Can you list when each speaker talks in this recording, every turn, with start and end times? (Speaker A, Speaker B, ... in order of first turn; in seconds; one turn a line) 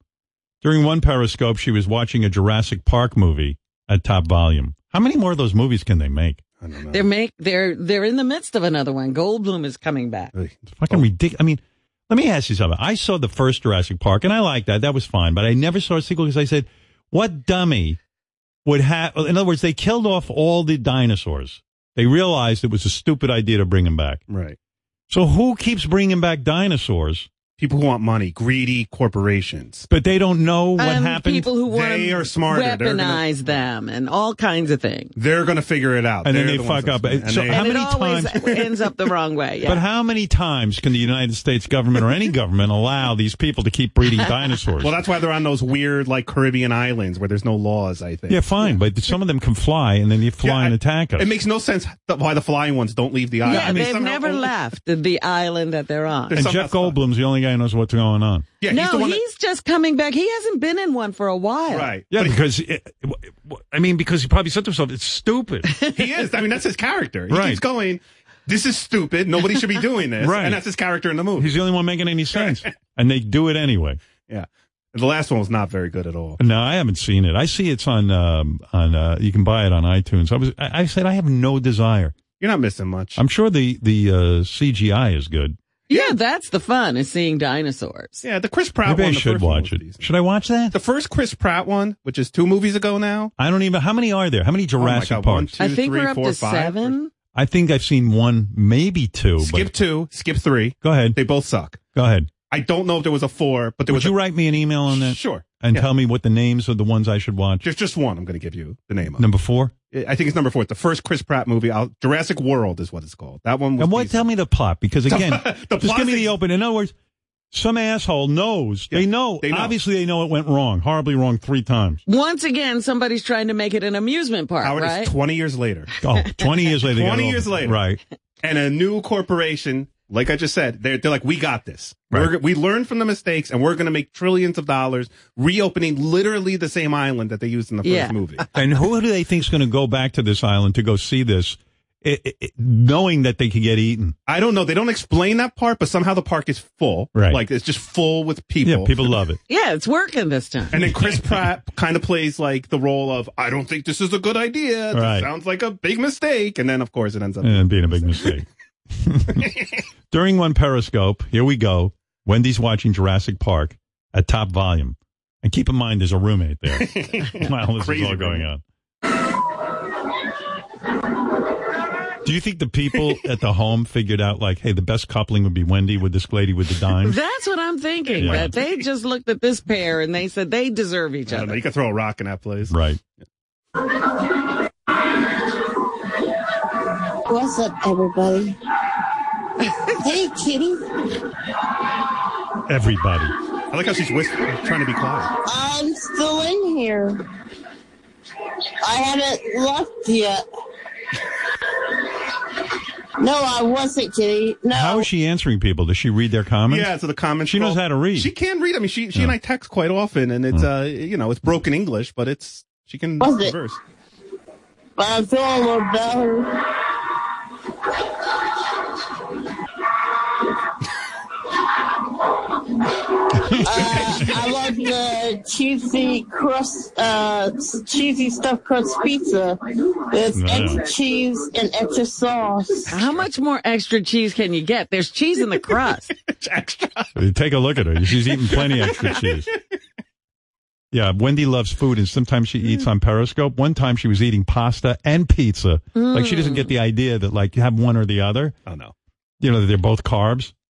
Speaker A: 0.6-6.4
Speaker B: 6.6-7.1
Speaker C: 6.9-10.3
Speaker B: 10.3-11.0
Speaker A: 10.8-18.0
Speaker A: 18.6-24.2
Speaker B: 24.3-24.6
Speaker A: 25.1-27.3
Speaker B: 27.6-29.9
Speaker A: 29.9-31.5
Speaker C: 30.8-35.1
Speaker B: 31.7-33.2
Speaker B: 35.1-37.7
Speaker A: 36.2-38.6
Speaker C: 37.5-39.8
Speaker A: 39.6-44.9
Speaker B: 44.8-48.8
Speaker A: 48.3-51.3
Speaker B: 50.4-54.5
Speaker A: 53.4-53.9
Speaker C: 53.4-56.4
Speaker B: 56.3-57.0
Speaker A: 56.3-58.5
Speaker B: 58.6-59.2
Speaker C: 58.7-61.9
Speaker B: 61.7-62.4
Speaker A: 62.1-65.7
Speaker B: 65.9-71.5
Speaker A: 67.3-67.6
Speaker A: 70.2-70.6
Speaker A: 71.4-74.0
Speaker B: 72.3-72.6
Speaker B: 74.3-76.4
Speaker A: 76.4-82.2
Speaker B: 82.4-83.2
Speaker A: 83.2-85.6
Speaker B: 85.9-86.1
Speaker C: 85.9-88.2
Speaker B: 88.2-90.0
Speaker A: 88.8-90.7
Speaker B: 90.7-93.3
Speaker A: 93.4-95.6
Speaker B: 94.8-96.9
Speaker C: 95.6-97.1
Speaker A: 97.3-99.7
Speaker B: 99.4-101.8
Speaker A: 100.8-101.2
Speaker A: 101.9-102.3
Speaker B: 102.5-104.2
Speaker A: 103.9-107.6
Speaker B: 104.9-105.9
Speaker B: 107.6-109.2
Speaker A: 109.2-109.7
Speaker B: 109.9-114.3
Speaker A: 113.8-116.9
Speaker B: 115.1-116.3
Speaker A: 117.5-122.0
Speaker B: 118.9-119.7
Speaker C: 122.1-125.1
Speaker B: 124.6-125.9
Speaker A: 126.0-128.0
Speaker B: 126.8-127.8
Speaker B: 128.4-138.5
Speaker C: 137.8-138.1
Speaker A: 138.5-144.2
Speaker B: 144.3-149.0
Speaker A: 147.1-147.4
Speaker A: 148.6-149.4
Speaker C: 149.5-150.8
Speaker B: 150.7-158.4
Speaker A: 154.9-155.3
Speaker A: 157.4-158.4
Speaker A: 159.0-159.5
Speaker A: 160.1-168.6
Speaker B: 166.8-168.4
Speaker A: 172.2-177.2
Speaker C: 177.0-181.6
Speaker A: 178.2-178.5
Speaker B: 181.3-182.7
Speaker A: 182.7-183.0
Speaker D: 185.3-185.7
Speaker D: 186.8-188.6
Speaker D: 189.9-191.3
Speaker A: 192.7-193.3
Speaker B: 193.7-195.3
Speaker D: 195.4-197.2
Speaker D: 198.8-200.4
Speaker D: 203.2-205.0
Speaker A: 204.7-206.9
Speaker B: 206.7-213.8
Speaker A: 207.4-208.3
Speaker D: 213.2-213.6
Speaker D: 215.0-216.8
Speaker D: 222.1-232.9
Speaker A: 223.5-224.2
Speaker A: 230.3-230.8
Speaker C: 232.9-236.1
Speaker B: 236.3-237.1
Speaker A: 237.2-239.5
Speaker B: 238.5-239.5
Speaker A: 240.9-248.6
Speaker C: 245.9-246.7
Speaker B: 248.7-248.9
Speaker A: 249.4-250.5